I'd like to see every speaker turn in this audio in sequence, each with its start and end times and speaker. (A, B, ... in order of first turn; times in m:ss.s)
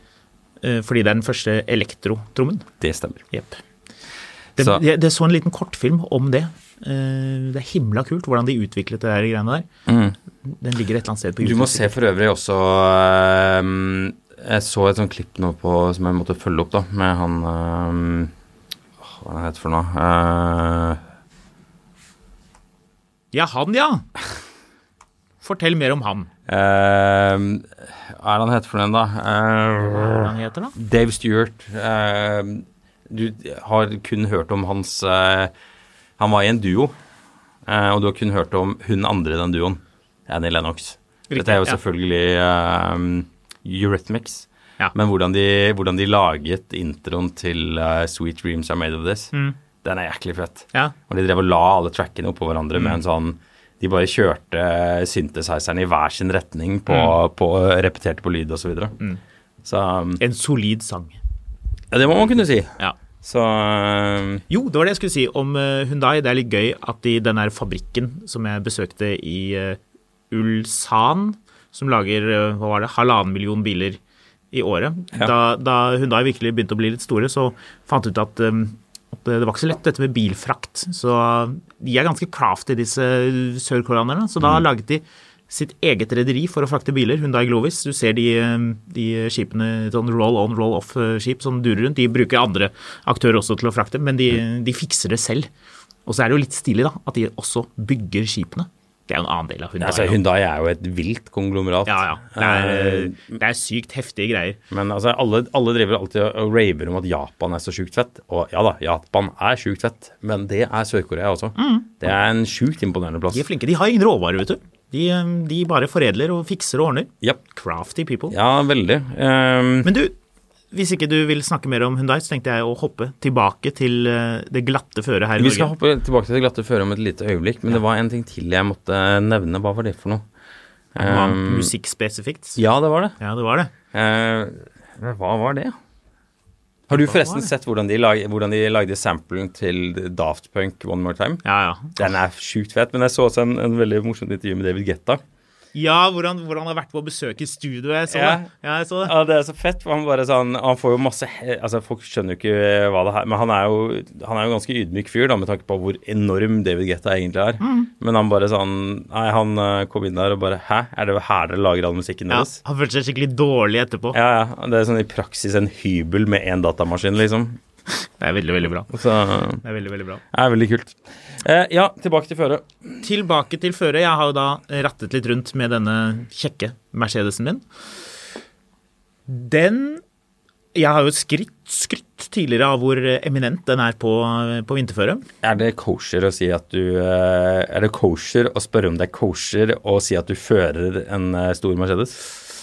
0:00.6-0:02.7 A
0:02.8-0:03.2 B
0:03.3-0:03.6 A
0:04.6-0:09.6 A
0:09.9-0:10.2 B
0:10.4-0:11.9 A
0:11.4-0:18.3 B
0:19.0-0:21.0 B
0:23.3-0:24.0 A
0:25.4-0:26.3 A
0:26.5-0:35.5 B
0:30.0-0:30.7 A
0:36.2-0:36.9 B
0:37.6-0:59.0 B
0:41.3-0:41.8 A
0:56.9-0:57.2 A
0:59.6-1:00.2 B
1:00.2-1:01.2 A
1:01.9-1:04.4 B
1:04.5-1:09.8 A
1:10.3-1:14.0 A
1:14.5-1:35.5 A
1:36.0-1:40.2 A
1:39.8-1:43.4 B
1:41.9-1:44.6 A
1:44.7-1:53.4 B
1:51.6-1:51.9 A
1:53.3-1:58.3 A
1:58.3-1:59.9 B
1:59.8-2:00.1 A
2:00.7-2:05.7 A
2:05.4-2:10.2 B
2:10.9-2:11.7 B
2:11.0-2:12.6 A
2:12.6-2:13.2 B
2:13.2-2:13.7 A
2:13.9-2:15.8 B
2:16.9-2:21.4 B
2:16.9-2:17.5 A
2:21.4-2:22.1 A
2:22.0-2:25.2 B
2:25.7-2:29.1 A
2:28.1-2:28.5 B
2:29.0-2:42.6 B
2:37.6-2:37.9 A
2:42.3-2:44.2 A
2:44.1-2:47.6 B
2:47.9-2:49.0 A
2:48.9-2:49.6 B
2:49.6-2:50.2 A
2:50.3-2:52.6 B
2:53.0-2:57.6 A
2:59.3-3:00.0 A
3:00.7-3:05.2 A
3:05.4-3:12.3 B